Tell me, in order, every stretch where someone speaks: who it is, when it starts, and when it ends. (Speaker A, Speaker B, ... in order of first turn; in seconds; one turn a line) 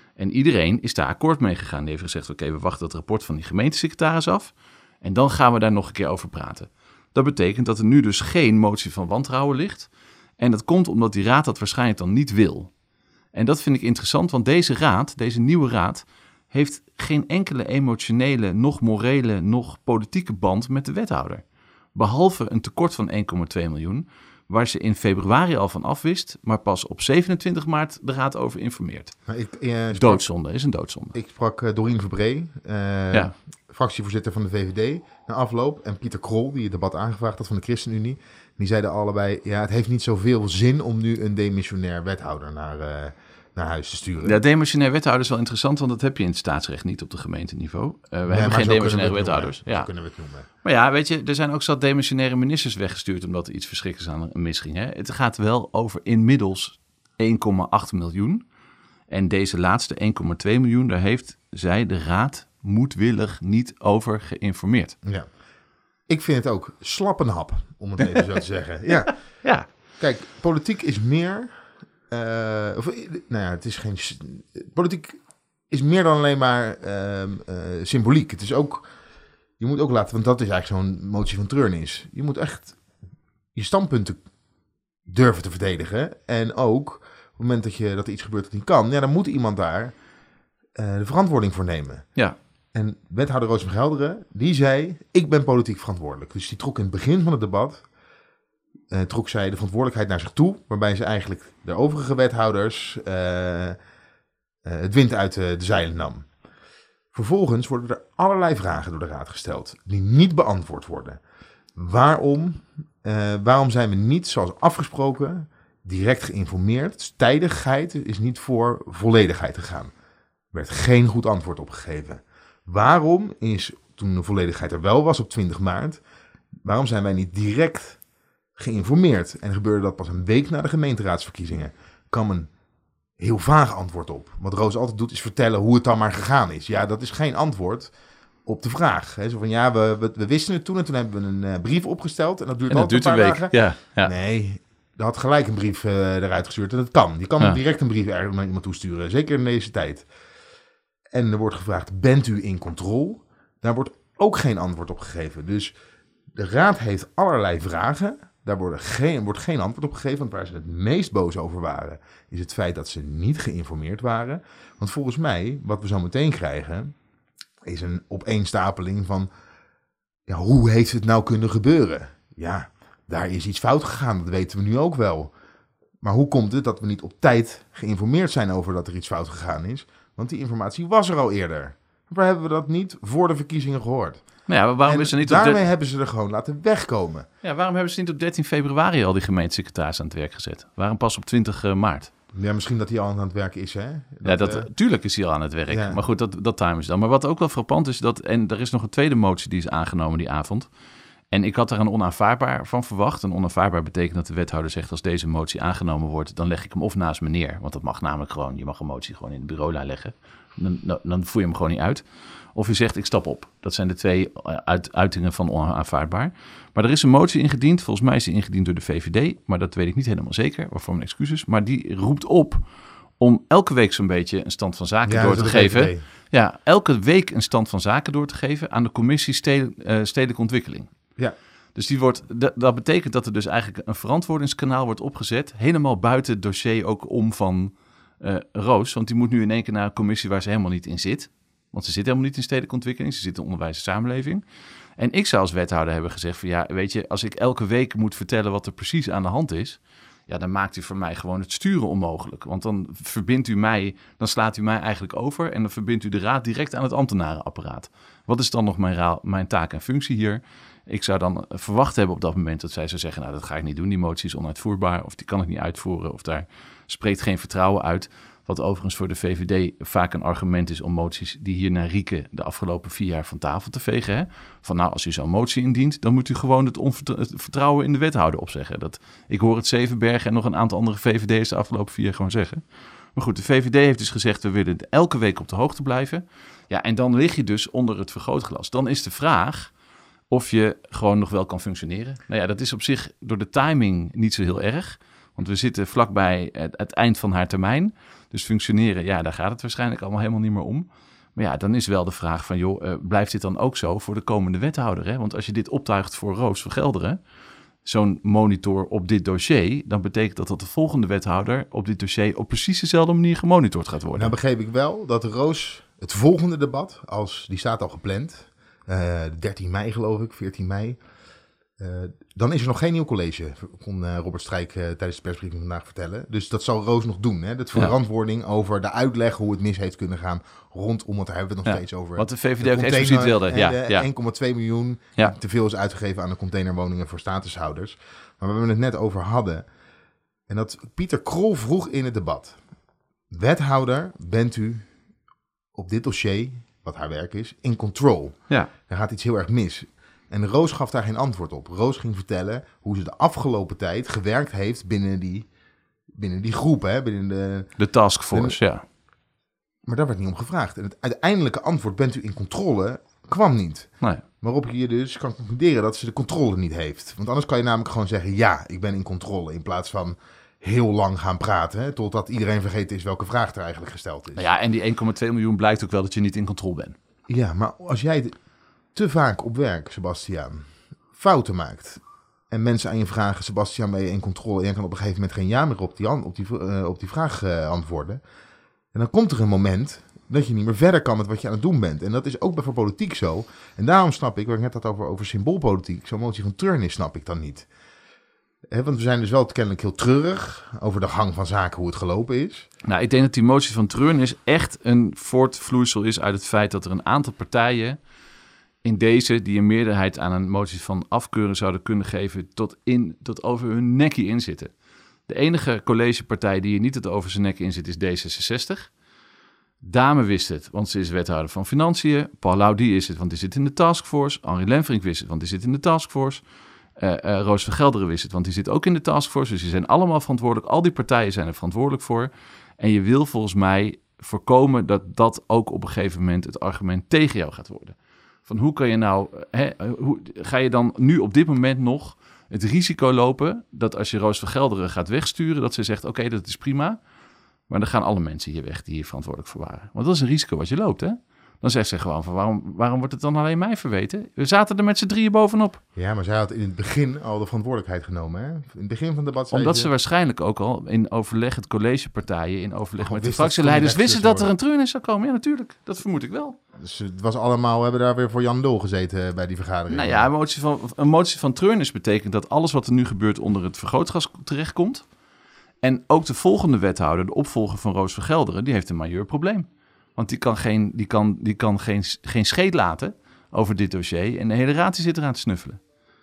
Speaker A: 0.2-12.7
Speaker A: 13.3-21.4
Speaker A: 21.9-29.2
Speaker B: 29.3-30.2
Speaker A: 29.9-31.1
Speaker B: 31.1-44.4
Speaker A: 44.2-49.9
Speaker B: 48.3-50.5
Speaker A: 50.6-58.4
Speaker A: 59.1-65.0
Speaker B: 65.0-65.3
Speaker B: 66.1-75.2
Speaker B: 75.7-78.9
Speaker B: 79.6-82.8
Speaker B: 83.5-84.2
Speaker B: 85.1-89.9
Speaker B: 90.8-92.2
Speaker B: 92.7-97.8
Speaker B: 98.9-103.8
Speaker B: 104.6-106.3
Speaker B: 107.1-111.2
Speaker B: 111.8-119.9
Speaker B: 120.5-126.0
Speaker B: 126.6-128.0
Speaker B: 128.6-132.5
Speaker B: 133.2-137.9
Speaker B: 138.4-150.1
Speaker A: 142.7-144.1
Speaker B: 151.1-155.7
Speaker B: 156.3-166.9
Speaker B: 167.6-169.3
Speaker B: 170.3-175.3
Speaker B: 176.0-187.2
Speaker A: 184.5-185.6
Speaker A: 187.4-192.1
Speaker B: 192.3-194.7
Speaker A: 194.2-200.7
Speaker B: 195.7-196.0
Speaker A: 201.3-212.0
Speaker A: 212.5-222.6
Speaker A: 223.2-230.9
Speaker B: 225.1-226.0
Speaker A: 231.8-244.4
Speaker A: 245.0-289.7
Speaker A: 290.3-307.2
Speaker A: 307.8-314.4
Speaker B: 314.1-321.0
Speaker B: 321.8-339.7
Speaker A: 331.6-334.1
Speaker B: 340.5-342.6
Speaker B: 343.3-344.9
Speaker B: 345.8-355.5
Speaker B: 356.2-358.6
Speaker A: 357.8-358.8
Speaker B: 359.9-374.5
Speaker A: 374.4-376.9
Speaker B: 377.3-378.4
Speaker B: 378.9-388.2
Speaker B: 388.9-397.7
Speaker B: 398.7-402.7
Speaker A: 402.8-408.0
Speaker A: 408.8-414.7
Speaker A: 415.3-418.9
Speaker A: 419.8-426.4
Speaker A: 426.9-447.0
Speaker A: 447.7-455.8
Speaker B: 455.9-459.9
Speaker A: 459.5-466.6
Speaker B: 463.0-464.5
Speaker B: 466.8-470.3
Speaker A: 469.9-475.1
Speaker A: 475.8-485.8